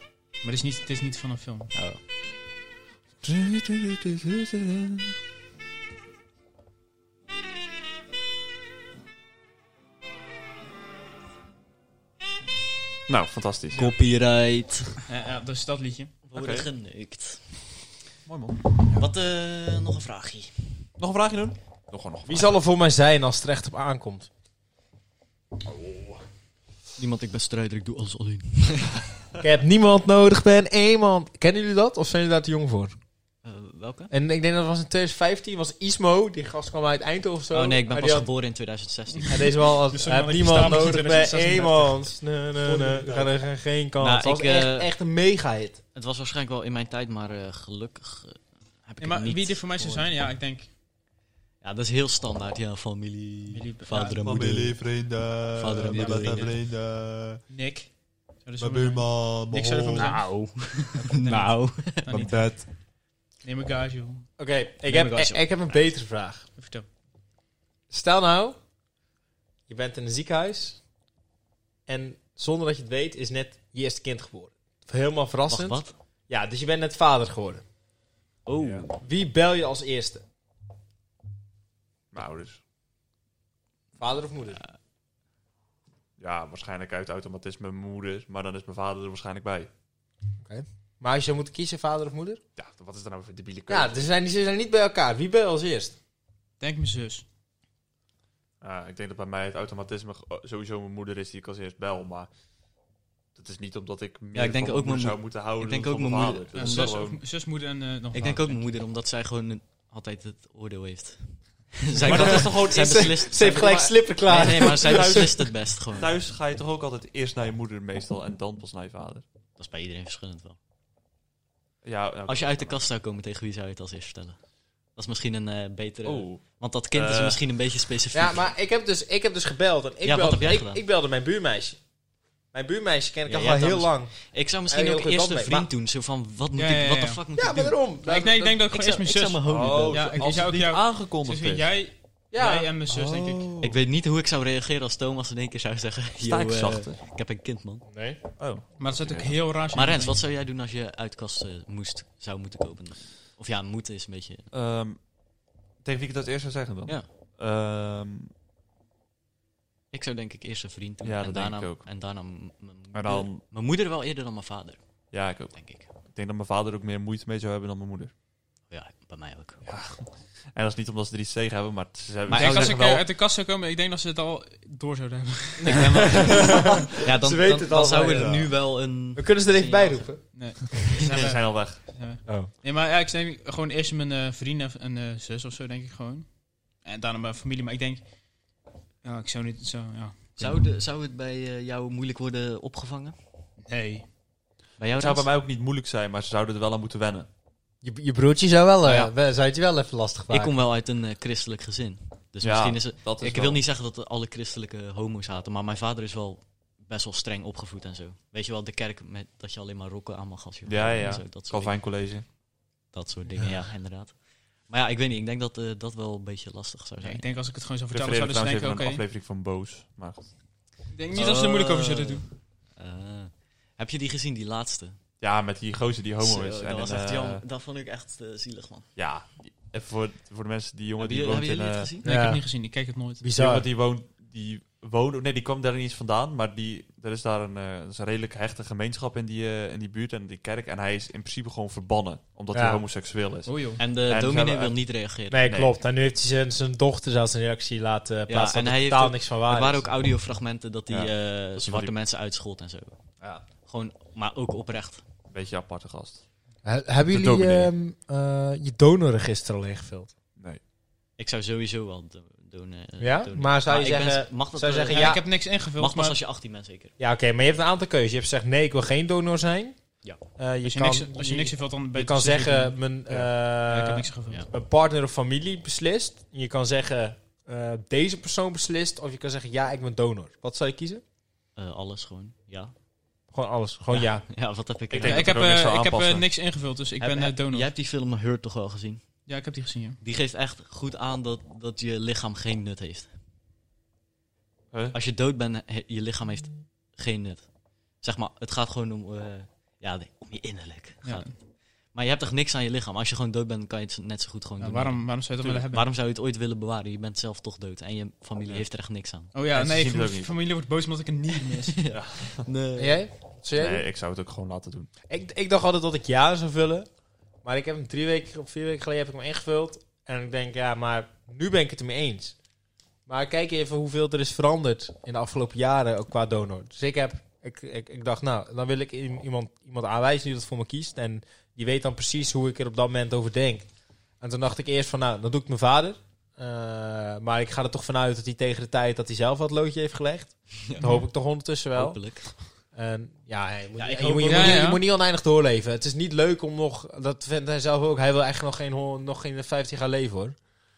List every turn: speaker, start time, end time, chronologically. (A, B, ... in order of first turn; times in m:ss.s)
0:00.4-0:01.7 A
0:01.7-0:02.0 B
0:03.2-0:05.1 C
0:13.1-0:13.9 C
0:13.7-0:15.0 B
0:15.0-0:16.2 A
0:16.2-0:17.5 B
0:16.3-0:16.7 C
0:18.2-0:18.8 C
0:18.9-0:20.9 B
0:21.0-0:22.6 C
0:22.2-0:24.3 D
0:27.0-0:29.0 B
0:29.4-0:33.0 D
0:33.4-0:34.1 B
0:34.1-0:38.3 D
0:37.5-0:39.5 B
0:39.3-0:45.8 D
0:39.8-0:42.1 A
0:42.7-0:43.1 B
0:42.8-0:43.3 C
0:44.0-0:44.9 B
0:45.9-0:50.1 B
0:49.0-0:50.7 A
0:51.6-0:54.8 B
0:53.5-0:54.2 A
0:54.2-0:57.4 C
0:55.5-0:56.6 B
0:55.8-0:56.6 A
0:57.5-1:00.3 A
0:58.6-1:00.1 C
1:00.0-1:02.4 B
1:00.9-1:02.7 A
1:02.2-1:02.6 C
1:03.4-1:04.3 A
1:04.4-1:06.5 D
1:04.8-1:05.9 B
1:06.6-1:06.8 A
1:07.9-1:08.6 D
1:09.7-1:10.8 D
1:11.9-1:17.6 D
1:15.5-1:16.0 B
1:18.4-1:19.0 B
1:18.6-1:18.9 C
1:19.0-1:20.2 D
1:22.1-1:22.6 C
1:24.0-1:24.6 D
1:26.2-1:29.7 C
1:30.4-1:32.4 D
1:32.6-1:34.0 C
1:33.7-1:35.9 D
1:36.6-1:37.2 A
1:38.6-1:42.3 C
1:43.3-1:47.2 C
1:44.3-1:46.9 B
1:46.5-1:48.6 A
1:48.1-1:56.1 B
1:52.0-1:53.2 C
1:52.0-1:55.4 D
1:54.4-1:59.2 C
1:59.6-2:00.6 B
2:01.8-2:02.8 C
2:02.3-2:04.4 B
2:04.9-2:08.5 B
2:06.0-2:07.4 C
2:08.1-2:11.8 D
2:10.0-2:10.8 B
2:12.5-2:14.1 D
2:13.2-2:17.8 B
2:14.7-2:15.7 D
2:16.6-2:17.2 A
2:17.4-2:18.6 D
2:18.0-2:23.5 A
2:18.7-2:20.3 B
2:19.4-2:21.7 C
2:22.3-2:22.7 D
2:22.9-2:23.7 C
2:23.6-2:27.8 B
2:26.2-2:27.0 C
2:27.9-2:28.2 D
2:28.4-2:29.4 C
2:28.8-2:30.2 A
2:29.7-2:34.5 B
2:34.5-2:35.1 C
2:35.8-2:38.3 C
2:39.9-2:44.8 B
2:41.0-2:41.9 C
2:42.9-2:43.4 C
2:45.1-2:48.1 C
2:45.5-2:45.9 B
2:48.7-2:49.7 B
2:49.6-2:53.0 C
2:52.3-2:52.8 B
2:52.3-2:56.8 A
2:55.7-2:56.4 B
2:55.7-2:58.4 D
2:56.5-2:56.9 C
2:57.0-3:00.1 B
2:58.1-2:58.5 C
2:59.1-3:00.2 D
3:00.3-3:08.0 A
3:01.0-3:01.8 C
3:09.0-3:10.7 A
3:10.4-3:13.2 B
3:13.6-3:14.1 A
3:14.8-3:15.3 B
3:15.0-3:17.3 C
3:17.8-3:20.5 D
3:18.8-3:19.1 B
3:20.3-3:31.8 B
3:22.4-3:23.6 C
3:30.6-3:32.3 C
3:32.9-3:37.2 B
3:37.0-3:39.0 A
3:37.9-3:40.3 C
3:40.9-3:42.2 A
3:41.1-3:45.0 B
3:45.2-3:47.4 C
3:46.2-3:48.9 B
3:49.0-3:51.9 C
3:51.0-3:52.0 B
3:52.0-3:52.5 D
3:52.0-3:53.2 A
3:53.2-3:53.7 D
3:53.3-4:04.8 C
4:02.5-4:02.8 D
4:03.4-4:03.8 A
4:03.8-4:05.5 B
4:05.3-4:09.9 D
4:05.4-4:05.7 C
4:08.3-4:13.0 B
4:10.9-4:11.9 C
4:13.6-4:15.0 B
4:15.3-4:16.2 C
4:16.6-4:20.1 D
4:17.1-4:17.7 C
4:21.2-4:26.9 B
4:23.0-4:25.2 D
4:24.9-4:26.2 A
4:27.0-4:29.8 D
4:30.4-4:41.0 D
4:30.6-4:32.8 A
4:33.6-4:34.4 A
4:41.6-4:42.7 B
4:43.3-4:44.3 D
4:43.9-4:45.3 B
4:44.9-4:46.3 C
4:45.0-4:47.7 A
4:47.0-4:49.0 B
4:49.2-4:50.0 A
4:50.0-4:53.1 B
4:54.9-4:57.5 B
4:58.0-5:01.4 B
5:01.0-5:01.3 A
5:01.9-5:09.3 B
5:04.6-5:05.9 A
5:09.3-5:11.9 A
5:09.5-5:10.3 C
5:11.8-5:13.0 B
5:11.9-5:12.5 C
5:12.8-5:13.8 D
5:13.6-5:14.9 C
5:15.1-5:16.9 D
5:17.4-5:22.4 D
5:23.1-5:33.7 D
5:34.2-5:50.4 D
5:41.7-5:42.4 B
5:43.8-5:44.6 B
5:44.2-5:44.8 A